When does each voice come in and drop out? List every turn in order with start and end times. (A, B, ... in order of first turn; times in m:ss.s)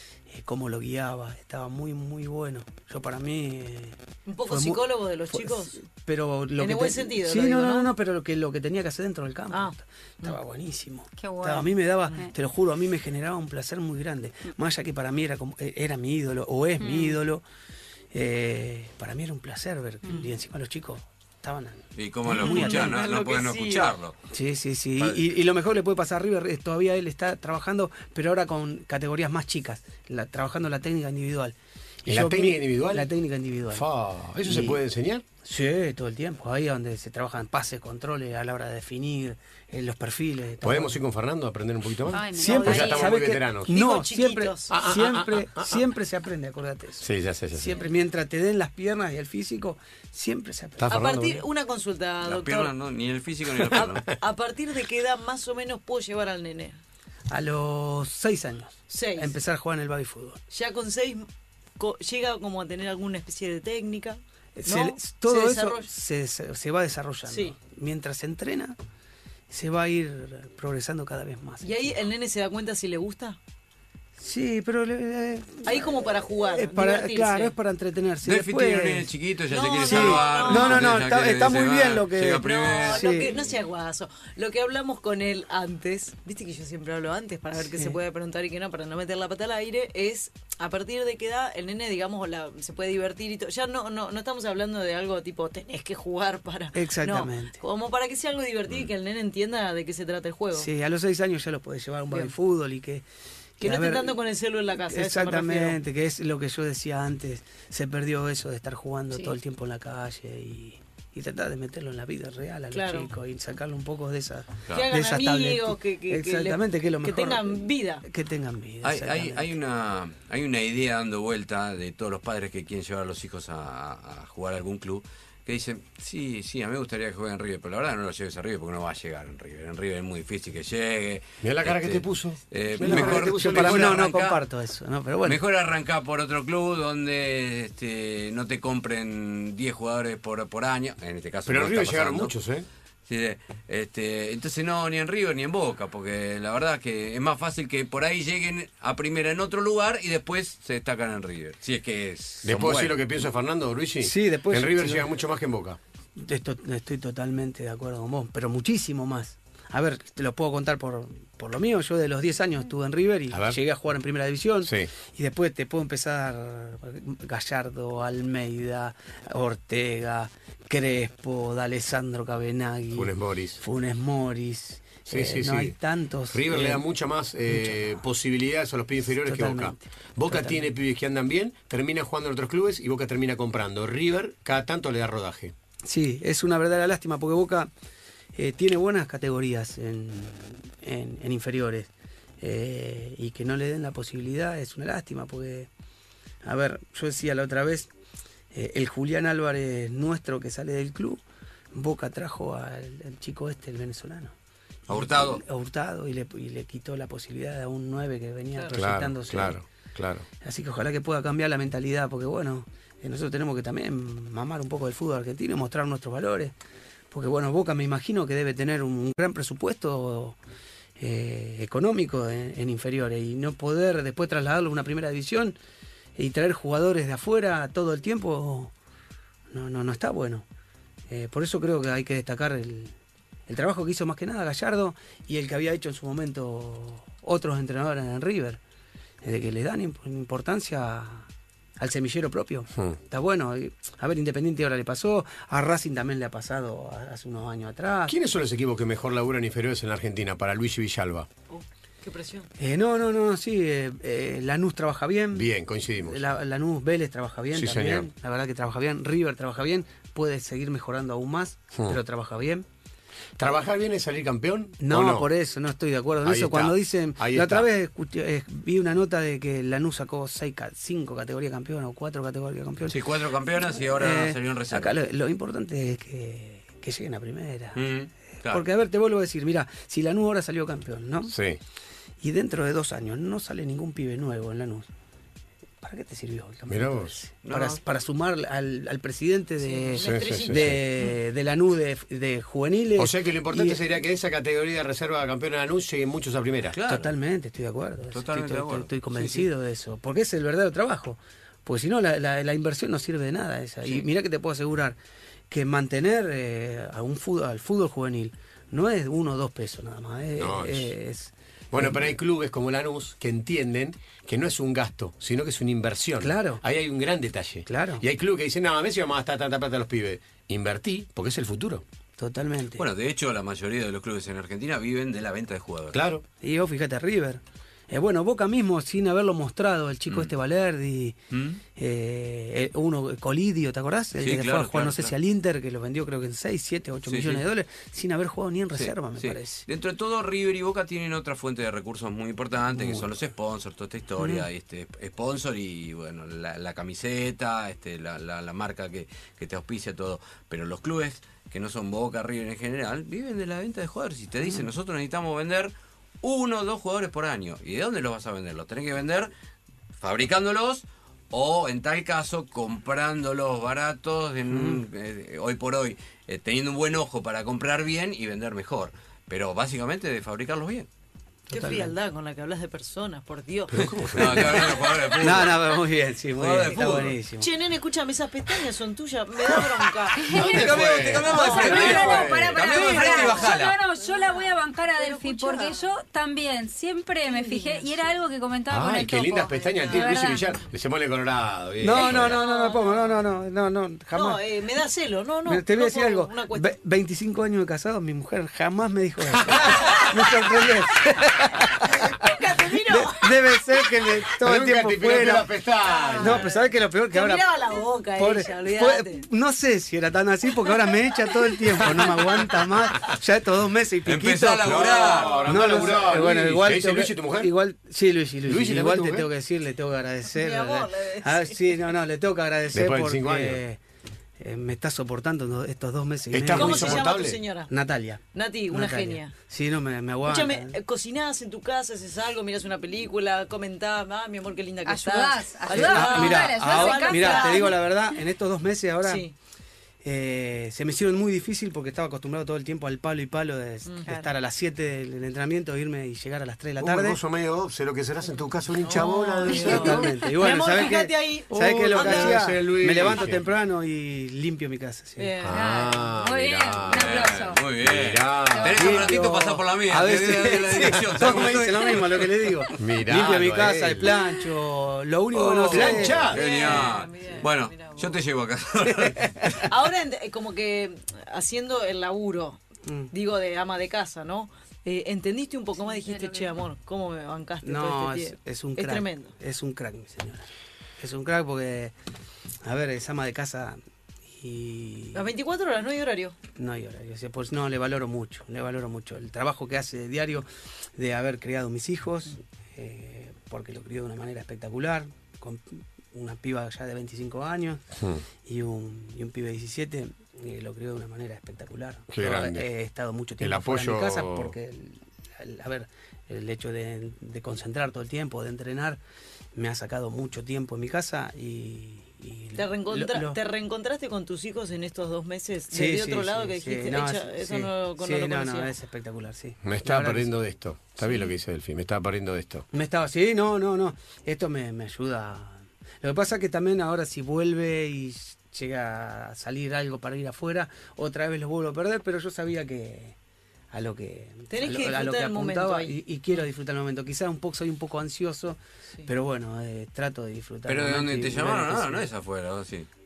0:00.3-0:17.4 A
0:04.3-0:05.8 B
0:06.6-0:07.9 B
0:09.5-0:10.4 B
0:11.2-0:12.3 C
0:16.8-0:17.2 C
0:18.1-0:22.9 A
0:21.9-0:24.2 D
0:22.3-0:23.9 B
0:24.3-0:33.8 A
0:32.0-0:33.1 E
0:33.7-0:35.2 E
0:34.4-0:34.8 A
0:35.4-0:41.0 A
0:40.6-0:43.7 E
0:42.1-0:43.1 C
0:42.3-0:51.1 A
0:42.4-0:43.1 B
0:43.7-0:44.8 B
0:44.7-0:45.8 E
0:47.0-0:47.8 E
0:50.8-0:51.4 E
0:50.9-0:52.7 B
0:52.2-0:54.1 D
0:53.7-0:56.8 B
0:57.3-1:00.4 A
0:58.9-0:59.4 B
1:00.5-1:01.3 B
1:01.8-1:05.9 B
1:04.6-1:08.8 A
1:07.3-1:07.6 B
1:09.5-1:11.8 A
1:11.6-1:13.4 B
1:14.2-1:19.1 A
1:15.6-1:17.5 B
1:18.2-1:23.2 D
1:19.5-1:20.9 B
1:19.8-1:23.3 A
1:22.4-1:40.7 B
1:27.5-1:28.0 A
1:36.7-1:37.6 A
1:40.5-1:43.0 A
1:43.6-1:44.2 A
1:43.6-1:45.8 B
1:44.9-1:59.5 A
1:52.7-1:53.1 B
1:54.7-1:58.0 B
1:58.8-2:14.4 D
2:11.4-2:14.0 E
2:12.8-2:15.4 A
2:15.2-2:22.3 D
2:21.4-2:22.6 E
2:23.1-2:33.0 D
2:32.4-2:35.8 E
2:34.0-2:35.1 A
2:36.2-2:56.8 A
2:43.3-2:43.6 E
2:44.6-2:44.9 E
2:52.9-2:53.6 E
2:55.1-2:55.8 E
2:56.3-3:05.5 E
2:57.5-2:57.9 A
2:59.2-3:00.6 A
3:05.8-3:07.7 A
3:08.3-3:15.7 A
3:16.4-3:17.9 A
3:18.5-3:21.2 A
3:21.7-3:24.3 A
3:24.9-3:25.4 D
3:24.9-3:29.6 A
3:28.7-3:30.2 E
3:30.4-3:36.5 A
3:37.1-3:40.4 A
3:41.0-3:45.6 A
3:46.2-3:48.7 A
3:49.5-3:50.4 A
3:51.1-3:52.9 A
3:53.5-3:58.6 A
3:59.2-4:08.2 A
4:08.1-4:11.3 E
4:11.5-4:12.5 B
4:12.6-4:15.5 A
4:15.3-4:16.3 E
4:16.0-4:22.6 A
4:17.5-4:18.1 E
4:23.4-4:25.3 E
4:24.8-4:33.0 A
4:26.2-4:27.7 E
4:32.9-4:35.0 D
4:33.7-4:37.8 A
4:37.7-4:38.6 D
4:38.4-4:41.3 A
4:41.3-4:41.6 E
4:42.2-4:44.9 A
4:45.8-4:53.8 A
4:46.7-4:47.2 E
4:47.4-4:47.8 D
4:49.6-4:51.1 B
4:50.0-4:50.8 E
4:53.0-4:56.8 E
4:56.7-4:57.1 D
4:56.8-5:05.0 A
4:58.1-4:59.5 D
5:05.5-5:12.1 A
5:10.4-5:10.9 E
5:11.7-5:21.8 E
5:16.2-5:16.6 A
5:17.7-5:18.0 A
5:22.2-5:22.8 A
5:22.8-5:26.0 D
5:25.9-5:26.2 E
5:26.4-5:31.2 A
5:31.3-5:31.6 D
5:31.7-5:39.6 A
5:34.2-5:35.1 D
5:37.0-5:37.4 D
5:38.7-5:59.3 D
5:42.7-5:43.1 A
5:44.2-5:44.5 A
6:00.0-6:10.9 D
6:04.5-6:04.8 A
6:11.5-6:11.9 A
6:11.5-6:15.6 B
6:13.8-6:14.5 E
6:14.0-6:15.6 D
6:15.2-6:17.5 A
6:16.4-6:17.1 D
6:16.7-6:20.3 B
6:20.1-6:20.7 C
6:20.2-6:22.7 E
6:20.3-6:23.8 D
6:20.4-6:22.1 A
6:21.2-6:25.9 B
6:21.3-6:30.4 C
6:27.2-6:28.2 B
6:28.7-6:32.4 E
6:29.5-6:30.4 B
6:31.8-6:34.4 A
6:31.9-6:33.2 B
6:34.1-6:36.7 B
6:35.4-6:45.5 A
6:39.6-6:40.3 B
6:41.8-6:43.3 B
6:44.4-6:46.4 E
6:45.8-6:49.2 B
6:46.2-6:47.5 A
6:48.2-7:03.8 A
6:51.7-6:52.3 B
6:54.0-6:55.5 D
6:54.6-6:57.5 E
6:54.8-6:55.5 B
6:58.4-6:59.3 E
7:00.3-7:01.8 B
7:02.7-7:03.6 E
7:04.4-7:07.1 A
7:06.3-7:07.4 E
7:06.5-7:07.7 B
7:07.7-7:10.8 A
7:08.3-7:09.3 B
7:10.2-7:17.8 B
7:14.8-7:17.8 C
7:15.7-7:19.2 A
7:19.0-7:19.3 B
7:20.0-7:27.2 A
7:23.8-7:24.3 B
7:26.8-7:30.2 E
7:28.8-7:32.4 B
7:29.4-7:35.3 A
7:31.5-7:33.4 E
7:35.2-7:35.7 B
7:35.4-7:39.1 E
7:35.4-7:37.6 C
7:36.9-7:42.3 D
7:38.5-7:39.1 C
7:38.7-7:46.8 A
7:42.8-7:44.1 E
7:45.3-7:49.6 D
7:45.6-7:46.4 E
7:46.2-7:48.2 B
7:49.0-7:49.7 A
7:49.7-7:59.3 B
7:52.8-7:53.1 A
7:55.9-7:56.4 C
7:57.6-8:01.9 A
8:02.6-8:03.8 A
8:04.3-8:05.3 A
8:05.1-8:06.4 B
8:06.6-8:17.8 A
8:17.9-8:18.2 E
8:18.4-8:29.0 A
8:22.1-8:22.7 E
8:23.4-8:24.6 E
8:29.5-8:33.4 A
8:32.6-8:38.7 B
8:35.7-8:40.3 A
8:39.6-8:42.6 E
8:42.7-8:53.2 A
8:53.7-9:02.1 A
8:54.5-8:56.0 B
9:00.6-9:02.9 D